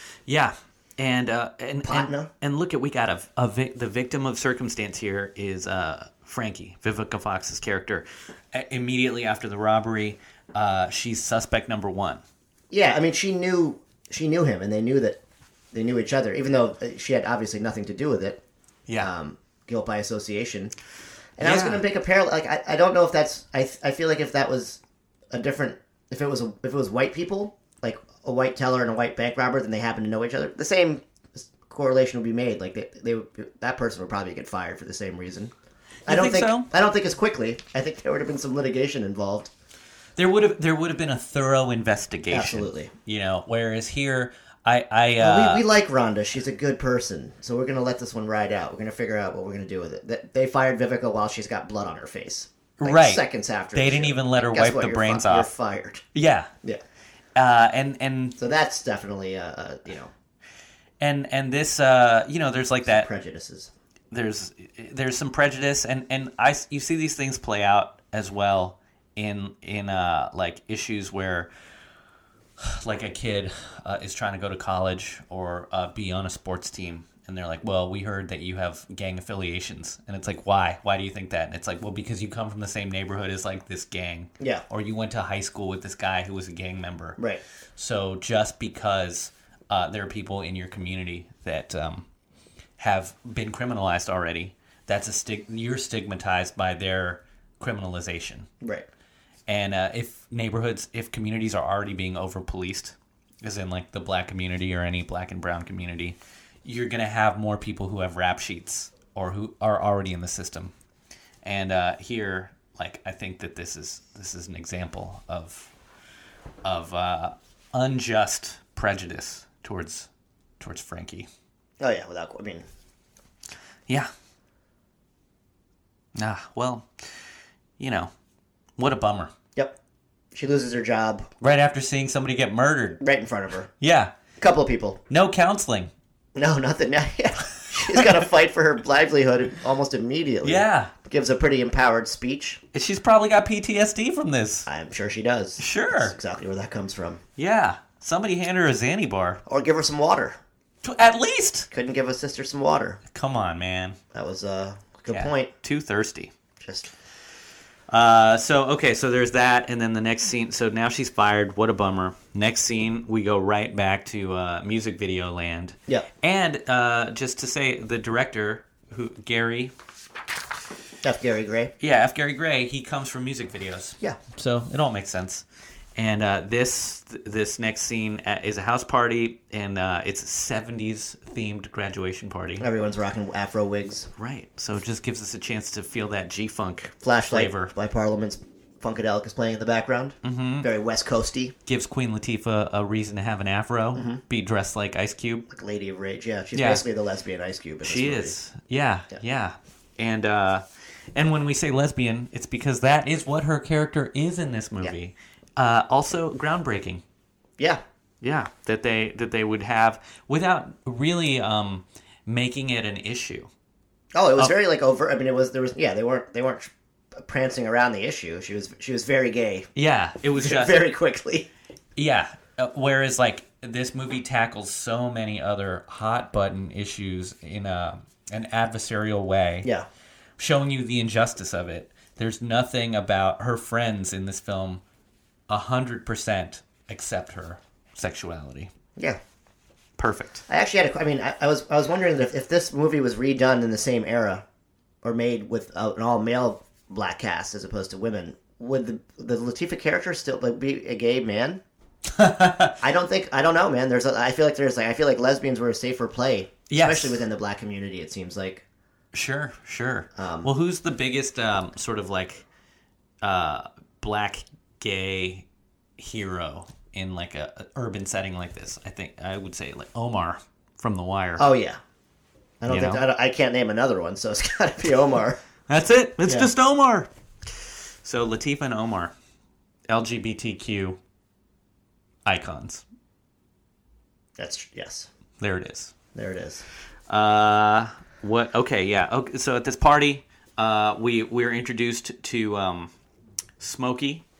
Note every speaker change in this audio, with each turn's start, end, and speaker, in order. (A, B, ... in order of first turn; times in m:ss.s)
0:00.3-0:12.2 A
0:01.8-0:02.3 B
0:12.7-0:15.2 B
0:15.7-0:18.4 B
0:19.0-0:20.7 B
0:21.4-0:24.8 B
0:21.4-0:21.8 A
0:25.3-0:35.5 B
0:36.1-0:36.7 A
0:36.1-0:39.5 B
0:40.2-0:45.6 A
0:42.3-0:42.9 B
0:45.2-0:56.0 B
0:52.8-0:55.5 A
0:56.1-0:56.5 A
0:57.4-0:58.4 A
0:58.4-1:00.1 B
1:01.0-1:03.1 A
1:02.9-1:03.7 B
1:04.1-1:11.5 A
1:12.6-1:27.2 A
1:27.8-1:32.1 A
1:32.8-1:38.5 A
1:38.6-1:38.9 B
1:39.5-1:50.7 A
1:51.4-1:55.7 A
1:56.6-2:01.3 A
2:01.8-2:02.6 B
2:06.2-2:06.9 A
2:07.8-2:08.1 A
2:08.8-2:09.3 A
2:10.3-2:11.3 B
2:11.4-2:13.0 A
2:13.0-2:13.7 B
2:13.8-2:14.2 A
2:14.4-2:15.0 B
2:15.1-2:15.9 A
2:16.4-2:22.6 B
2:20.4-2:20.9 A
2:22.7-2:24.7 A
2:24.7-2:27.2 B
2:25.6-2:26.2 A
2:27.4-2:29.4 A
2:29.5-2:30.4 B
2:30.8-2:31.7 A
2:31.7-2:33.0 B
2:33.1-2:34.0 A
2:34.1-2:35.5 B
2:35.1-2:36.3 A
2:36.6-2:36.9 B
2:37.9-2:49.7 A
2:51.0-2:51.7 B
2:51.8-2:55.4 A
2:56.0-3:02.7 A
3:02.6-3:04.1 B
3:04.2-3:07.7 A
3:07.0-3:11.6 B
3:10.2-3:10.7 A
3:11.7-3:15.5 A
3:14.0-3:14.2 B
3:15.5-3:18.4 B
3:16.5-3:16.8 A
3:17.8-3:20.6 A
3:21.2-3:27.0 A
3:28.2-3:33.5 A
3:34.1-3:39.7 B
3:39.8-3:40.8 A
3:40.4-3:41.5 B
3:42.0-3:49.7 A
3:50.4-3:54.8 A
3:55.5-3:58.7 A
4:00.0-4:00.4 A
4:00.5-4:04.4 B
4:05.0-4:11.6 B
4:12.1-4:12.8 A
4:12.8-4:18.6 B
4:16.7-4:17.2 A
4:19.1-4:22.4 A
4:20.2-4:20.5 B
4:23.2-4:25.5 A
4:26.0-4:31.5 A
4:31.4-4:31.8 B
4:32.6-4:35.4 B
4:32.7-4:33.0 A
4:35.7-4:39.1 A
4:36.2-4:36.5 B
4:39.9-4:41.0 A
4:42.2-4:42.8 A
4:44.4-4:45.1 B
4:45.4-4:45.9 A
4:46.2-4:46.6 B
4:47.1-4:52.9 A
4:53.6-4:54.2 A